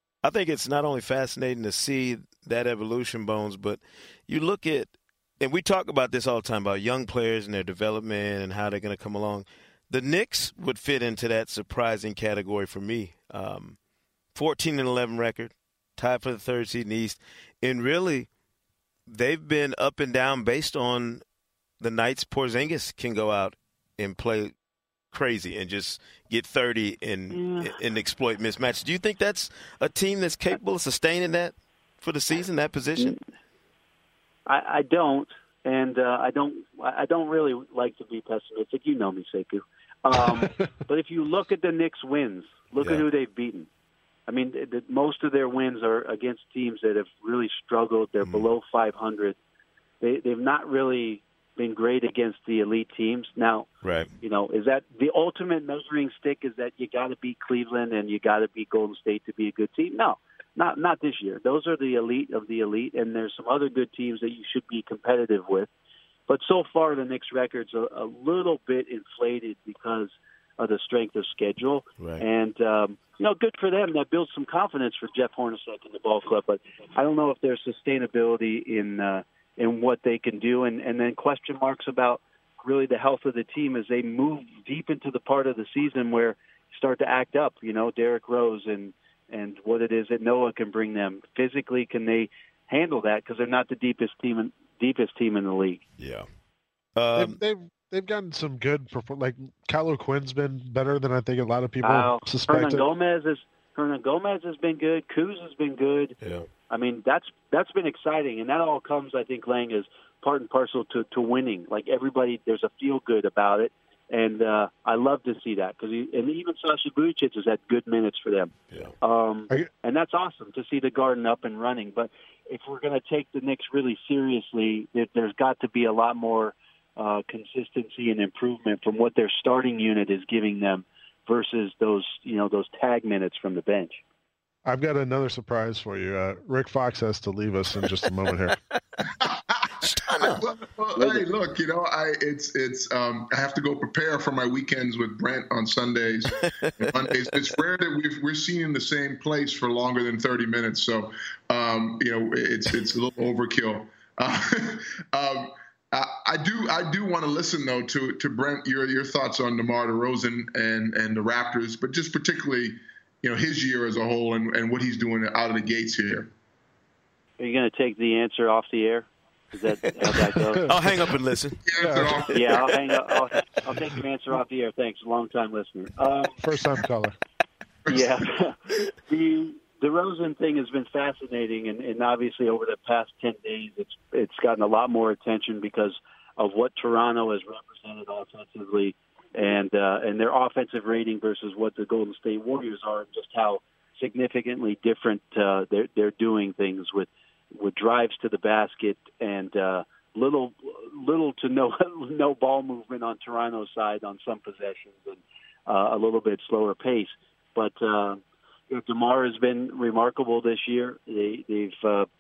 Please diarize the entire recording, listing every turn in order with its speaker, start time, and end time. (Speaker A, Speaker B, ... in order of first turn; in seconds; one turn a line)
Speaker A: 0.2-13.8
Speaker A: 14.3-18.3
Speaker A: 19.1-21.2
Speaker A: 21.8-24.5
Speaker A: 25.1-33.1
Speaker B: 27.3-27.7
Speaker B: 34.5-43.7
Speaker A: 42.8-43.0
Speaker B: 44.3-49.4
Speaker B: 50.0-53.7
Speaker A: 53.8-54.1
Speaker B: 54.2-65.7
Speaker B: 66.3-95.8
Speaker A: 72.0-72.2
Speaker A: 96.0-96.3
Speaker A: 97.0-97.4
Speaker C: 97.2-102.8
Speaker B: 101.8-106.1
Speaker A: 106.2-106.5
Speaker B: 106.7-134.0
Speaker C: 134.7-138.6
Speaker D: 139.2-139.7
Speaker A: 139.8-140.4
Speaker D: 140.2-166.3
Speaker B: 140.9-141.2
Speaker B: 167.4-170.7
Speaker A: 170.7-171.6
Speaker D: 171.7-172.8
Speaker C: 171.8-172.2
Speaker B: 172.3-176.4
Speaker C: 176.4-177.2
Speaker B: 177.9-212.1